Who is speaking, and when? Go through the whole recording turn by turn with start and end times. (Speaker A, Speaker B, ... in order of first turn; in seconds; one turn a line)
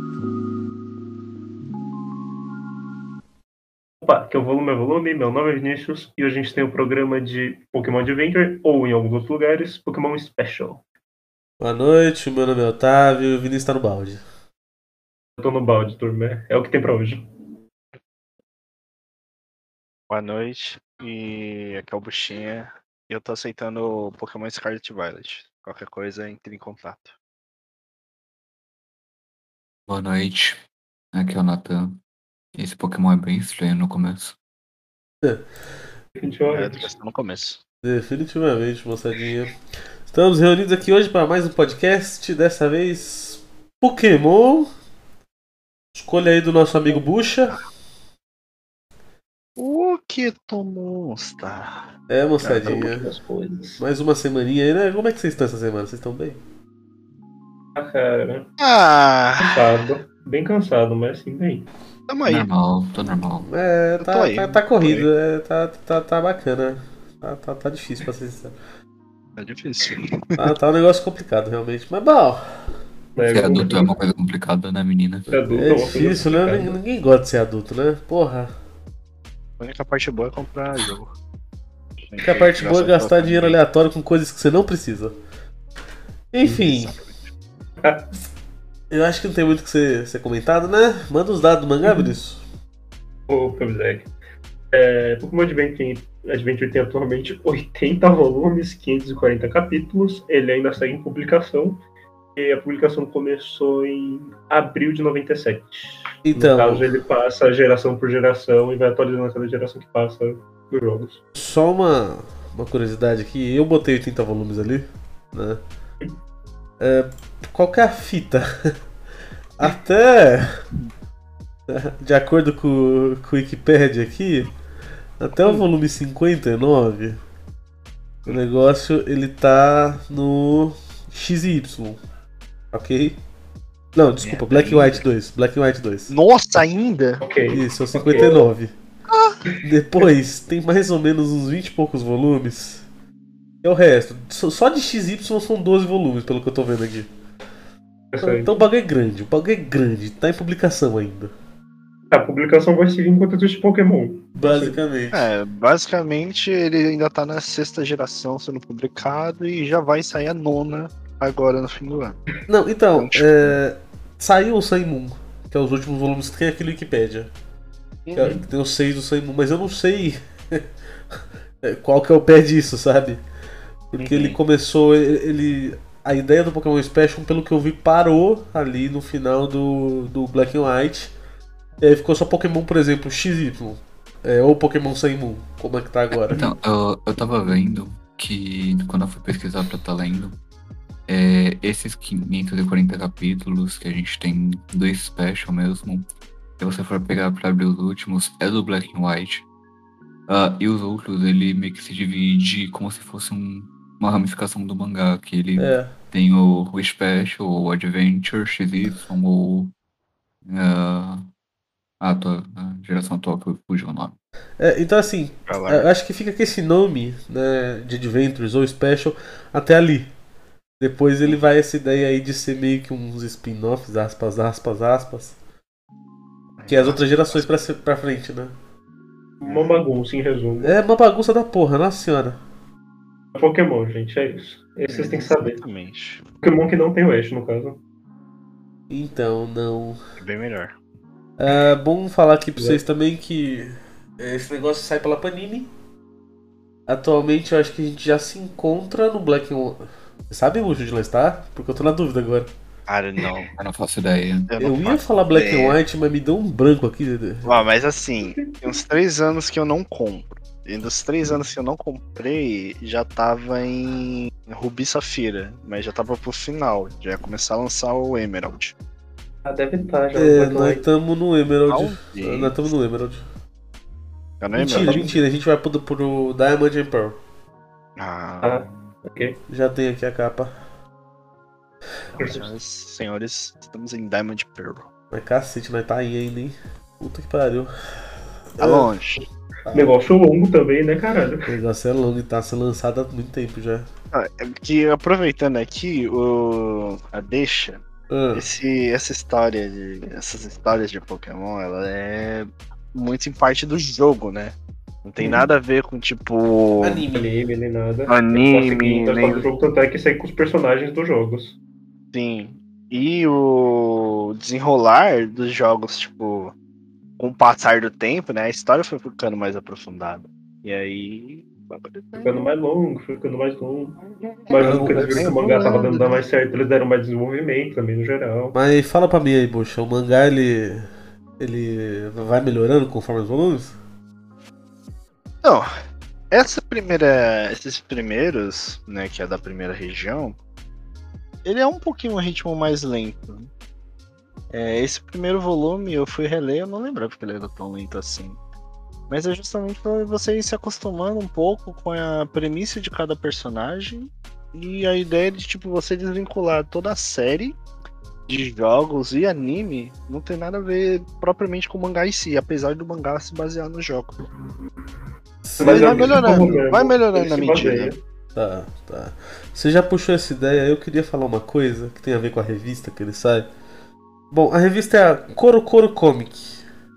Speaker A: 4.0-10.8
Speaker B: 11.6-14.2
Speaker A: 15.4-17.2
Speaker C: 20.1-27.1
Speaker D: 29.9-30.6
Speaker D: 31.1-32.0
Speaker D: 32.5-34.4
Speaker A: 36.1-36.9
Speaker C: 36.5-37.6
Speaker B: 37.8-39.5
Speaker B: 40.1-44.7
Speaker B: 45.9-47.6
Speaker C: 49.6-52.8
Speaker B: 52.1-53.1
Speaker A: 52.6-53.8
Speaker B: 53.8-56.4
Speaker A: 57.8-58.5
Speaker C: 58.6-59.7
Speaker A: 59.4-61.7
Speaker C: 62.1-62.5
Speaker D: 62.2-63.5
Speaker B: 63.5-68.5
Speaker C: 64.0-65.1
Speaker C: 69.4-70.4
Speaker B: 70.4-72.7
Speaker A: 73.2-74.0
Speaker D: 73.3-75.3
Speaker A: 75.3-76.8
Speaker B: 75.5-78.5
Speaker C: 79.6-81.1
Speaker C: 82.1-83.6
Speaker B: 82.2-85.1
Speaker B: 86.3-86.9
Speaker C: 86.4-87.2
Speaker A: 87.8-88.1
Speaker B: 88.9-92.4
Speaker A: 91.8-92.1
Speaker A: 93.3-94.1
Speaker A: 94.7-101.8
Speaker A: 102.3-111.2
Speaker B: 106.2-106.8
Speaker B: 111.3-115.6
Speaker B: 116.8-118.8
Speaker B: 119.6-120.6
Speaker B: 121.7-124.5
Speaker B: 125.2-127.2
Speaker B: 128.2-132.0
Speaker B: 132.7-133.2
Speaker B: 133.9-136.1
Speaker C: 134.2-135.0
Speaker C: 136.1-137.2
Speaker A: 137.2-138.4
Speaker B: 137.5-138.7
Speaker C: 139.1-139.4
Speaker B: 139.6-142.8
Speaker B: 143.6-147.1
Speaker A: 148.1-148.5
Speaker B: 148.2-151.3
Speaker A: 152.1-154.8
Speaker B: 154.3-155.2
Speaker C: 155.1-162.2
Speaker B: 162.5-167.3
Speaker C: 162.9-163.6
Speaker C: 168.1-168.3
Speaker B: 168.2-170.6
Speaker B: 171.6-173.2
Speaker B: 173.9-181.1
Speaker C: 174.0-174.4
Speaker B: 181.8-186.4
Speaker D: 186.3-190.4
Speaker D: 191.1-196.1
Speaker D: 196.6-199.4
Speaker D: 200.3-209.7
Speaker B: 205.6-205.9
Speaker D: 210.4-211.3
Speaker D: 212.0-214.2
Speaker B: 214.6-220.1
Speaker C: 215.5-215.8
Speaker B: 220.8-225.3
Speaker C: 226.6-227.5
Speaker B: 226.7-228.5
Speaker A: 229.4-230.7
Speaker C: 229.4-229.7
Speaker B: 230.6-232.4
Speaker A: 233.3-235.6
Speaker C: 234.9-236.2
Speaker A: 236.4-237.8
Speaker B: 238.9-240.0
Speaker C: 240.2-240.8
Speaker B: 241.4-245.7
Speaker B: 246.9-252.5
Speaker C: 252.9-253.5
Speaker D: 253.6-254.5
Speaker C: 254.5-255.8
Speaker B: 254.6-257.6
Speaker C: 257.4-268.7
Speaker A: 258.2-258.8
Speaker A: 269.4-270.8
Speaker B: 270.1-273.2
Speaker C: 271.7-272.6
Speaker C: 274.4-275.1
Speaker B: 274.5-277.2
Speaker A: 274.6-275.2
Speaker C: 278.0-278.8
Speaker A: 278.4-279.4
Speaker B: 279.5-280.5
Speaker C: 282.1-284.9
Speaker A: 282.2-282.5
Speaker B: 285.1-287.7
Speaker B: 288.6-288.9
Speaker C: 288.6-289.2
Speaker B: 289.6-289.9
Speaker A: 289.7-291.5
Speaker B: 291.5-293.9
Speaker C: 294.1-307.0
Speaker B: 298.1-298.4
Speaker B: 306.8-307.3
Speaker A: 307.1-311.6
Speaker C: 308.1-309.5
Speaker C: 312.1-316.5
Speaker C: 317.2-322.5
Speaker A: 322.2-324.0
Speaker C: 324.2-326.2
Speaker A: 324.5-328.6
Speaker B: 324.6-325.5
Speaker B: 328.5-333.8
Speaker C: 335.4-335.7
Speaker C: 336.3-340.4
Speaker C: 341.4-343.5
Speaker C: 344.5-348.4
Speaker C: 349.1-357.6
Speaker C: 358.3-364.1
Speaker B: 365.4-366.3
Speaker A: 365.6-368.0
Speaker C: 365.6-367.9
Speaker B: 368.3-373.5
Speaker B: 374.3-376.6